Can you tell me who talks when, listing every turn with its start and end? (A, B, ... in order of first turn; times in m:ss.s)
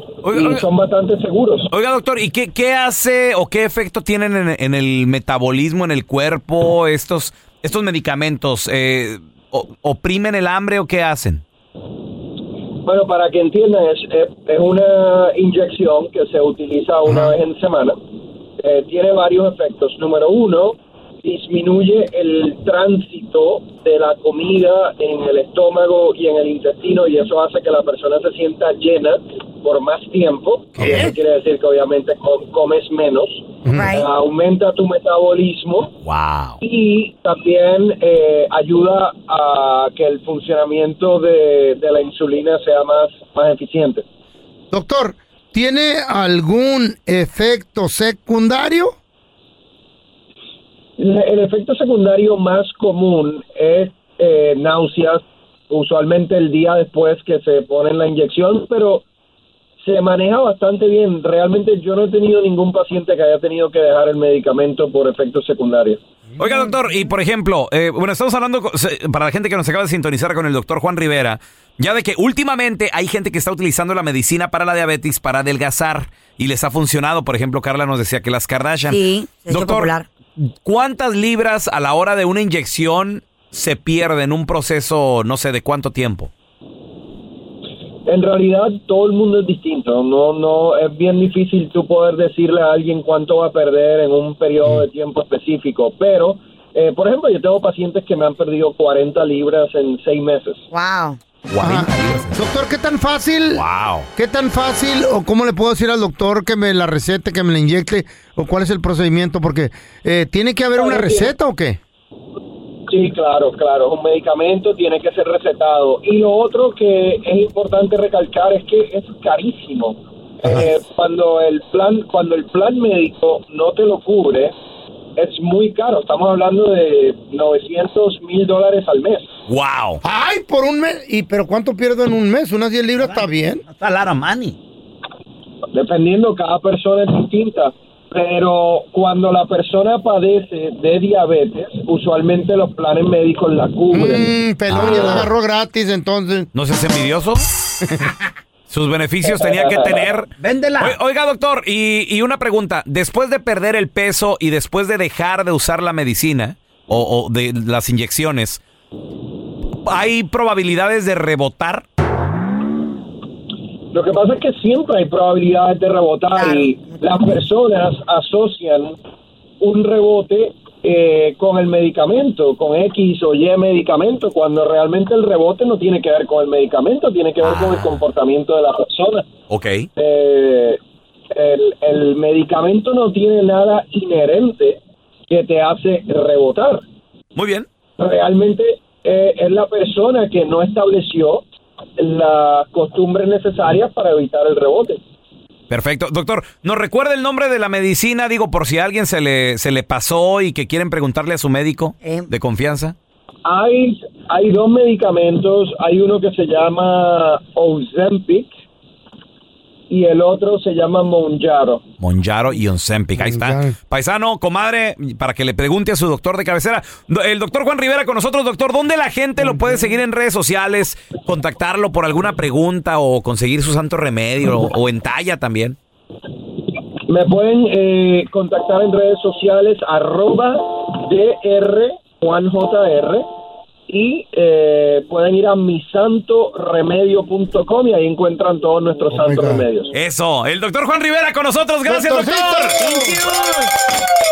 0:00.2-0:00.7 A
0:00.3-0:01.7 B
0:01.7-0:11.4 A
0:12.8-0:18.0 B
0:17.1-0:17.4 C
0:18.6-0:35.9 B
0:30.8-0:31.1 C
0:33.6-0:33.9 C
0:33.7-0:34.1 D
0:36.0-0:36.6 A
0:36.6-0:44.0 B
0:44.7-0:49.0 C
0:51.0-0:59.0 B
0:59.8-1:06.0 B
1:06.4-1:26.3 A
1:18.9-1:20.1 D
1:28.1-1:40.6 B
1:40.7-1:41.2 D
1:41.5-1:42.4 A
1:41.6-1:51.8 C
1:43.5-1:44.1 A
1:50.8-1:51.4 B
1:52.9-2:04.6 B
2:00.4-2:00.7 C
2:05.2-2:09.3 B
2:09.5-2:10.0 A
2:10.0-2:13.6 C
2:13.0-2:14.6 A
2:15.7-2:24.3 B
2:23.9-2:26.5 C
2:24.7-2:25.3 A
2:26.5-2:27.4 A
2:27.8-2:28.2 C
2:28.7-2:38.6 A
2:29.5-2:29.8 B
2:39.8-2:41.8 A
2:43.9-2:49.0 B
2:46.4-2:47.3 D
2:49.6-2:59.3 B
2:57.4-2:58.0 A
2:59.5-2:59.9 A
3:00.0-3:00.8 B
3:01.3-3:06.8 B
3:07.4-3:07.7 A
3:08.0-3:11.5 B
3:12.0-3:15.0 B
3:15.7-3:23.0 A
3:22.0-3:22.3 D
3:23.4-3:28.5 B
3:29.9-3:31.8 B
3:32.0-3:45.8 A
3:33.2-3:33.7 C
3:47.1-3:53.3 B
3:53.9-3:59.9 B
3:59.1-3:59.6 C
3:59.9-4:03.2 A
4:01.9-4:03.2 C
4:02.8-4:03.3 D